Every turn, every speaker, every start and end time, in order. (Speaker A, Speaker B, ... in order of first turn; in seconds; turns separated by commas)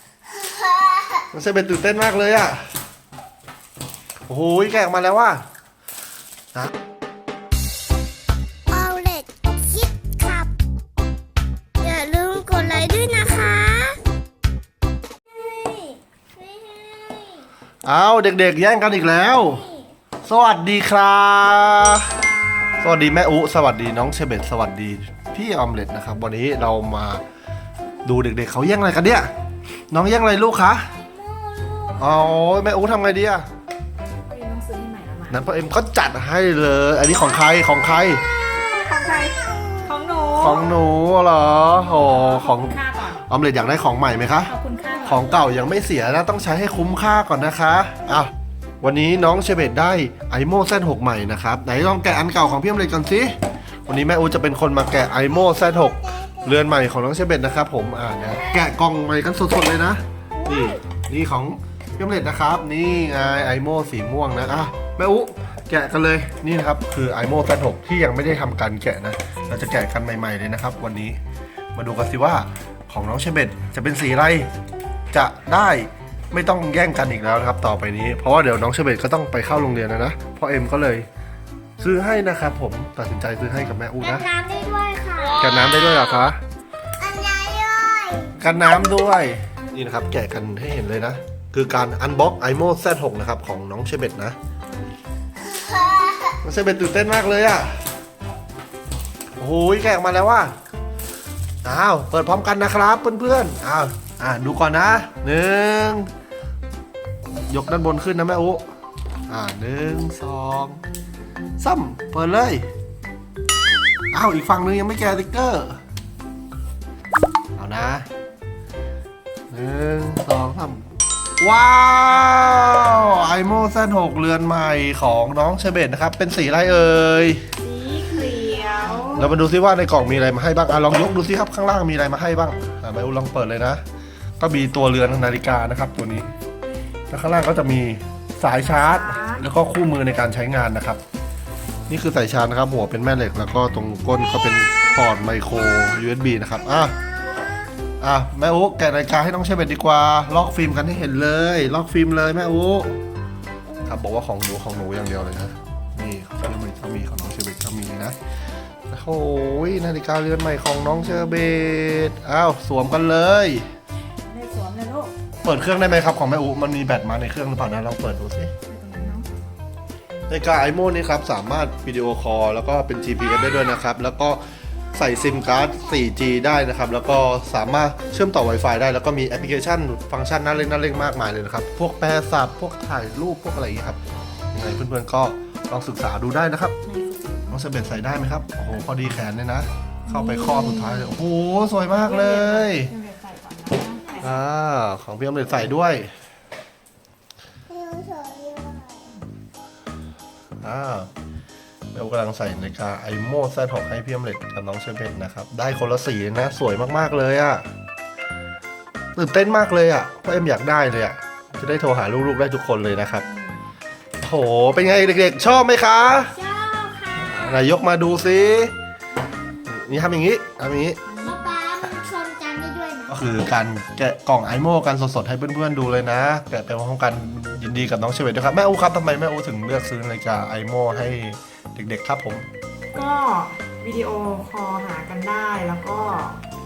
Speaker A: 1.3-2.7, Speaker A: 4.3-5.4, Speaker B: 8.7-10.5, Speaker B: 11.8-14.0, Speaker B: 15.5-17.4, Speaker A: 17.8-19.6, Speaker B: 19.4-19.8, Speaker A: 20.2-22.2, Speaker C: 22.1-23.2, Speaker A: 22.8-27.2, Speaker A: 28.0-29.3, Speaker A: 29.9-30.8, Speaker B: 31.6-31.9, Speaker A: 31.9-33.5, Speaker C: 34.3-35.4, Speaker A: 35.3-38.2, Speaker C: 38.5-40.6, Speaker A: 40.4-48.3, Speaker C: 41.8-43.2, Speaker C: 44.5-45.3, Speaker A: 48.8-53.3, Speaker A: 53.9-71.2, Speaker B: 55.3-56.5, Speaker B: 60.4-60.8, Speaker A: 71.7-74.5, Speaker A: 75.1-81.1, Speaker A: 81.8-84.3, Speaker B: 84.0-86.3, Speaker A: 85.4-86.4, Speaker B: 87.0-88.4, Speaker A: 88.4-94.3, Speaker A: 96.4-97.8, Speaker A: 99.4-100.5, Speaker A: 101.6-106.1, Speaker A: 107.5-108.6, Speaker A: 109.3-110.8, Speaker A: 111.6-112.7, Speaker A: 114.1-115.8, Speaker A: 117.6-118.0, Speaker A: 119.5-127.4, Speaker C: 127.6-129.3, Speaker A: 129.1-133.8, Speaker A: 134.4-136.3, Speaker A: 137.1-141.0, Speaker C: 138.6-139.5, Speaker A: 141.9-146.9, Speaker B: 144.6-145.0, Speaker B: 146.8-147.7, Speaker A: 148.0-153.0, Speaker A: 153.8-158.2, Speaker A: 158.9-163.7, Speaker C: 164.3-165.1, Speaker A: 165.4-168.5, Speaker C: 168.7-169.3, Speaker A: 170.3-174.4, Speaker A: 174.9-184.0, Speaker A: 184.5-186.7, Speaker C: 186.8-187.6, Speaker A: 187.5-192.9, Speaker C: 190.1-191.1, Speaker C: 192.0-194.4, Speaker B: 193.9-194.4, Speaker A: 194.2-196.1, Speaker B: 197.7-199.1, Speaker A: 200.6-201.1, Speaker A: 201.9-207.7, Speaker A: 209.2-213.2, Speaker C: 213.2-213.7, Speaker A: 214.2-216.3, Speaker B: 216.3-217.7, Speaker A: 217.2-218.7, Speaker A: 219.6-221.0, Speaker C: 221.1-221.6, Speaker B: 221.2-223.2, Speaker A: 223.1-232.4, Speaker C: 232.9-236.4